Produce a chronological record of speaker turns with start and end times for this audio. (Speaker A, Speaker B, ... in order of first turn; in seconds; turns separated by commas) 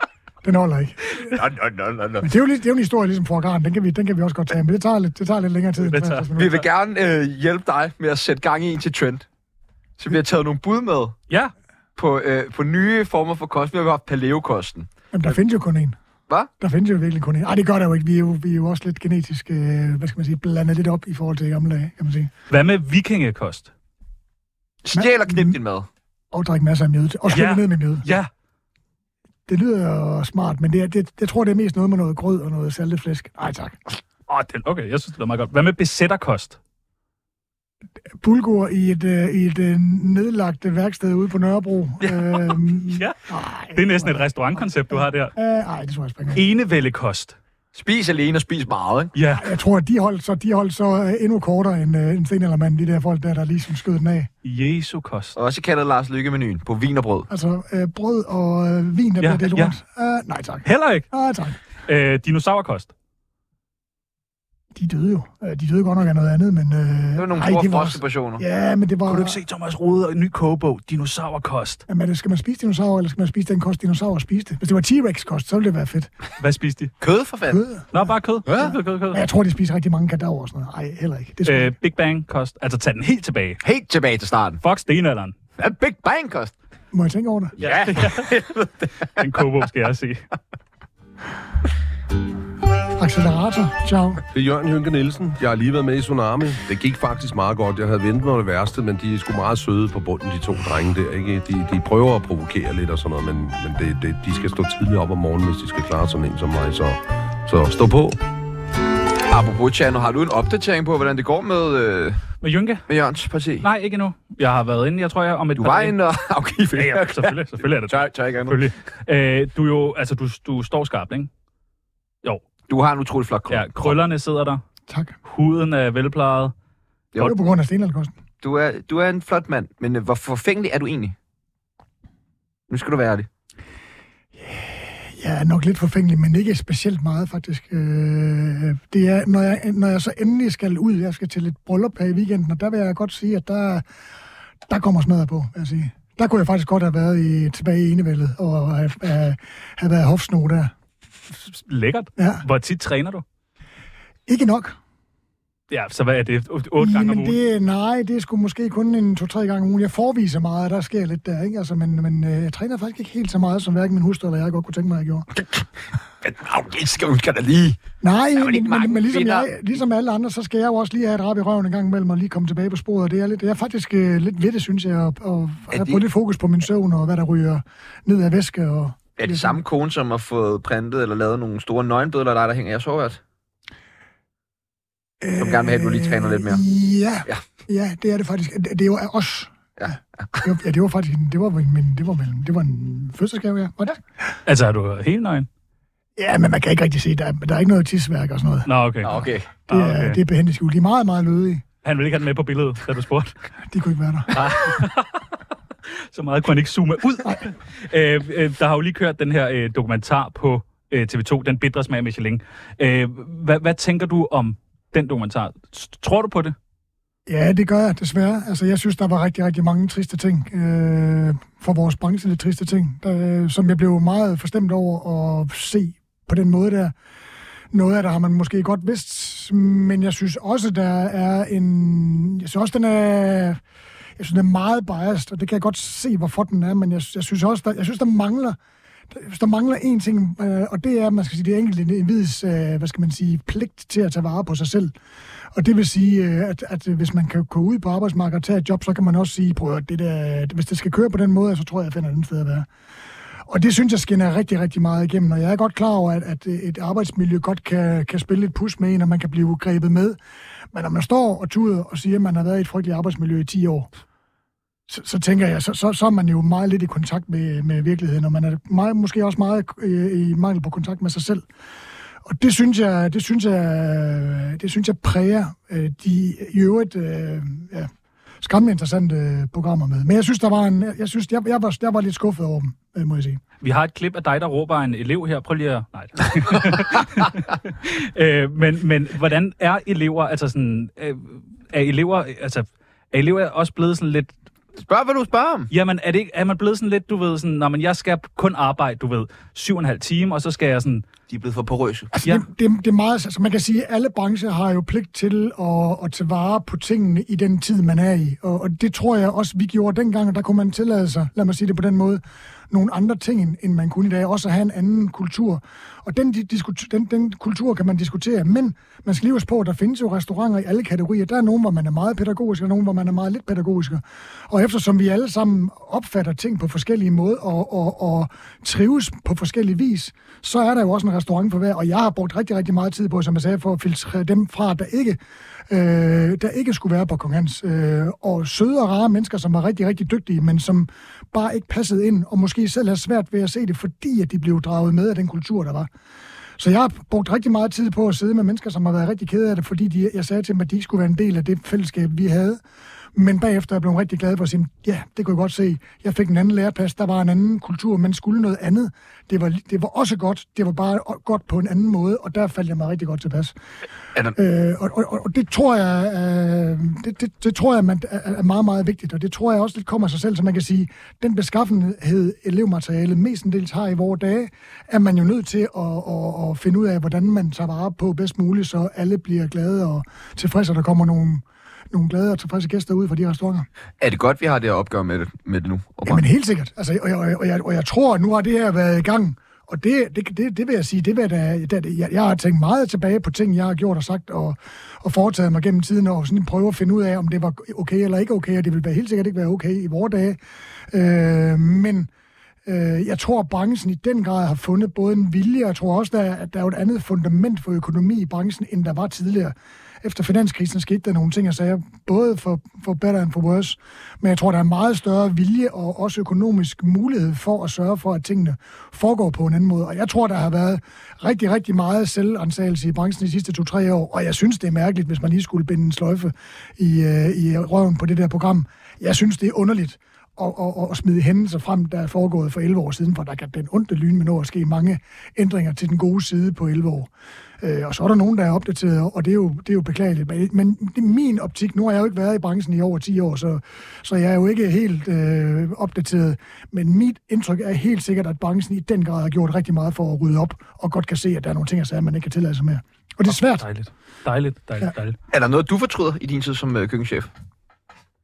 Speaker A: 0.4-1.3, Speaker B: 1.2-2.3, Speaker A: 2.2-6.6, Speaker C: 5.8-6.3, Speaker B: 6.3-9.2, Speaker B: 10.0-11.2, Speaker B: 11.9-14.9, Speaker A: 15.1-16.0, Speaker A: 16.6-22.3, Speaker C: 22.5-23.7, Speaker B: 24.8-25.9, Speaker A: 24.9-25.6, Speaker A: 26.3-28.1, Speaker C: 27.3-28.3, Speaker A: 29.5-33.9, Speaker C: 34.3-36.6, Speaker A: 38.2-46.4, Speaker C: 42.0-43.2, Speaker C: 43.7-45.3, Speaker C: 46.3-47.4, Speaker B: 47.7-49.1, Speaker C: 49.1-49.5, Speaker A: 49.3-54.3, Speaker C: 54.4-55.4, Speaker B: 55.4-57.3, Speaker A: 57.3-61.6, Speaker C: 59.2-59.7, Speaker C: 60.6-61.1, Speaker C: 61.8-62.9, Speaker A: 64.7-69.4, Speaker B: 67.2-68.4, Speaker C: 69.1-71.8, Speaker A: 71.9-76.1, Speaker C: 76.4-76.9, Speaker B: 77.0-77.6, Speaker A: 77.5-77.9, Speaker C: 77.9-79.2, Speaker B: 78.5-78.7, Speaker A: 78.6-81.7, Speaker C: 81.4-83.6, Speaker B: 83.6-84.6, Speaker C: 84.6-85.3, Speaker B: 85.6-86.5, Speaker A: 86.9-87.6, Speaker C: 87.6-88.3, Speaker B: 87.6-89.1, Speaker C: 89.2-90.2, Speaker A: 93.0-94.2, Speaker D: 94.3-108.2, Speaker B: 109.3-112.2, Speaker C: 112.4-112.8, Speaker B: 112.9-113.7, Speaker C: 113.6-115.9, Speaker B: 115.5-118.6, Speaker C: 116.7-121.3, Speaker B: 122.7-124.0, Speaker C: 123.5-124.6, Speaker A: 124.9-125.2, Speaker C: 125.2-126.5, Speaker A: 127.2-128.1, Speaker B: 128.4-131.1, Speaker B: 132.7-133.3, Speaker A: 134.4-143.8, Speaker A: 144.7-150.7, Speaker C: 151.5-153.2, Speaker A: 152.2-152.4, Speaker A: 154.3-154.8, Speaker C: 155.7-157.4, Speaker A: 156.8-165.3, Speaker B: 166.2-167.8, Speaker A: 168.0-179.6, Speaker B: 168.3-169.5, Speaker B: 175.7-176.0, Speaker B: 179.2-183.2, Speaker A: 185.2-189.6, Speaker B: 185.4-186.6, Speaker B: 189.8-190.4, Speaker A: 190.4-194.0, Speaker C: 194.4-195.5, Speaker A: 196.2-198.7, Speaker C: 198.7-200.2, Speaker B: 199.0-199.5, Speaker A: 199.7-201.6, Speaker C: 201.8-203.3, Speaker A: 203.7-204.4, Speaker C: 204.3-205.2, Speaker C: 205.9-216.6, Speaker A: 217.3-226.9, Speaker A: 227.7-233.6, Speaker A: 234.2-238.6, Speaker A: 239.1-244.9, Speaker A: 245.5-252.7, Speaker A: 253.5-260.2, Speaker A: 260.7-263.9, Speaker A: 264.9-271.4, Speaker A: 272.2-277.9, Speaker A: 278.4-283.4, Speaker C: 283.6-294.3, Speaker B: 294.8-295.7, Speaker C: 295.7-301.0, Speaker B: 301.3-302.1, Speaker A: 302.1-345.9, Speaker A: 346.6-352.6, Speaker A: 353.1-363.5, Speaker A: 364.3-383.7, Speaker B: 384.0-386.2, Speaker A: 386.0-400.4, Speaker A: 400.9-402.1, Speaker A: 402.6-437.1, Speaker A: 437.6-453.7, Speaker C: 453.3-455.2, Speaker B: 455.3-457.3